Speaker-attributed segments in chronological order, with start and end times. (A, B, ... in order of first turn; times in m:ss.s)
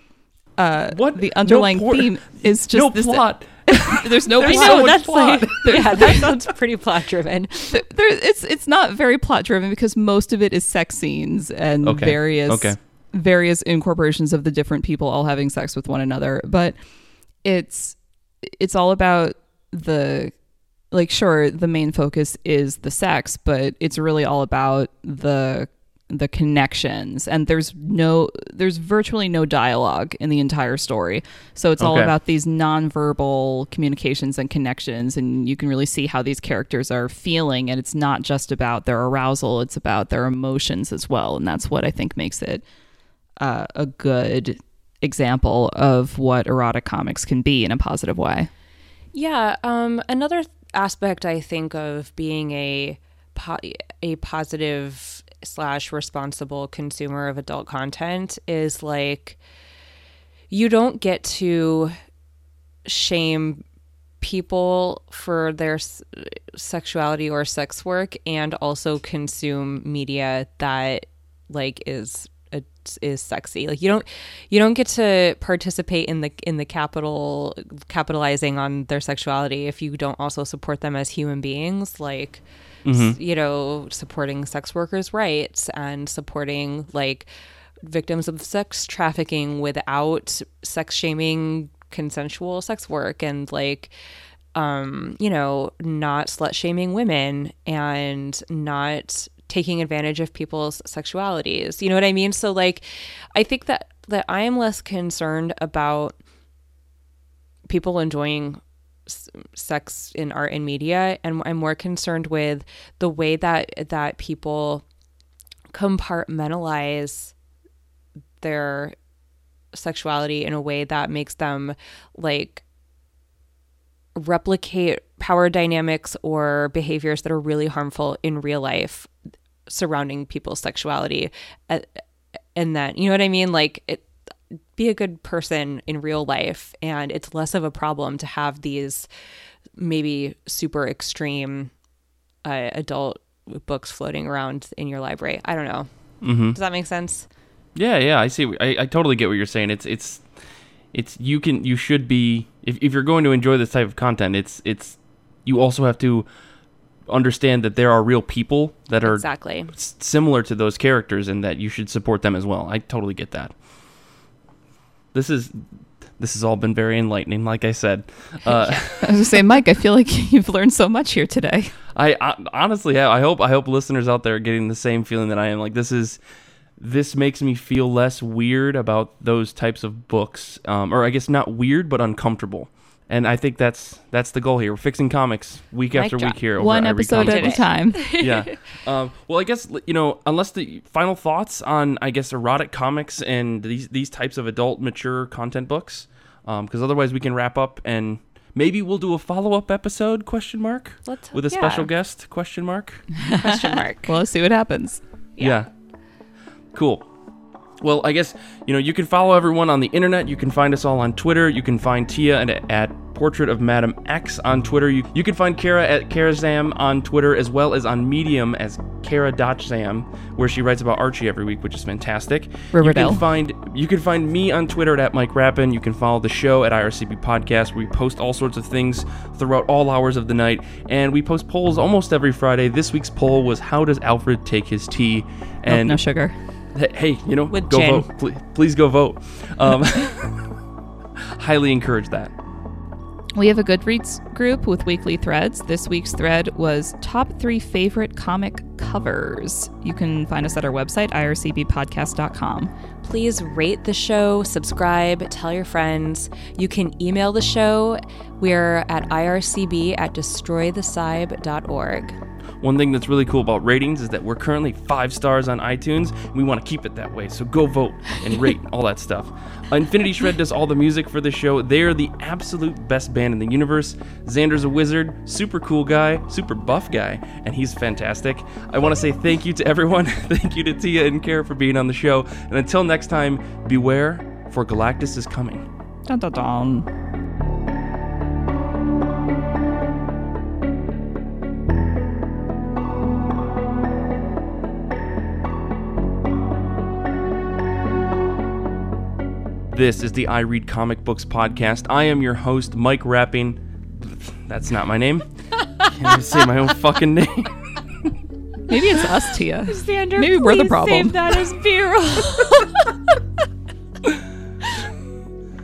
0:00.6-0:06.1 A
0:00.9-0:06.2 B
0:04.4-0:07.8 C
0:07.7-0:16.8 A
0:11.8-0:12.8 B
0:17.4-0:20.4 A
0:20.9-0:42.6 A
0:31.8-0:32.1 B
0:43.4-0:48.5 A
0:49.1-0:59.4 C
1:00.5-1:01.9 C
1:02.8-1:03.6 C
1:04.2-1:27.3 C
1:22.9-1:23.2 B
1:27.8-1:33.9 C
1:34.6-1:46.2 C
1:47.7-1:54.8 C
1:55.7-1:57.3 C
1:58.4-1:59.0 C
1:59.7-2:02.6 C
2:04.2-2:09.1 C
2:09.7-2:12.0 C
2:12.6-2:14.1 C
2:14.8-2:19.1 C
2:19.8-2:21.7 C
2:22.4-2:25.9 C
2:26.2-2:26.6 B
2:26.5-2:27.3 C
2:27.8-2:30.2 B
2:30.9-2:36.3 B
2:37.1-2:43.5 B
2:39.0-2:39.7 C
2:45.1-2:45.6 B
2:46.2-2:49.2 B
2:48.5-2:48.8 C
2:49.0-2:51.8 A
2:51.9-2:56.2 B
2:56.8-3:23.1 B
3:05.9-3:06.4 C
3:06.6-3:08.0 A
3:07.1-3:08.5 C
3:21.1-3:21.9 C
3:23.2-3:25.0 A
3:23.2-3:24.1 C
3:25.4-3:25.7 B
3:26.7-3:27.1 B
3:27.8-3:56.0 B
3:42.7-3:43.2 A
3:55.7-3:56.3 A
3:56.7-4:00.6 B
3:57.5-3:58.1 C
4:01.4-4:02.3 B
4:03.4-4:12.7 A
4:13.0-4:22.2 C
4:22.6-4:45.7 B
4:46.1-4:46.9 A
4:59.7-5:05.3 B
5:05.8-5:06.2 C
5:05.8-5:08.2 B
5:08.7-5:11.2 A
5:09.7-5:13.0 C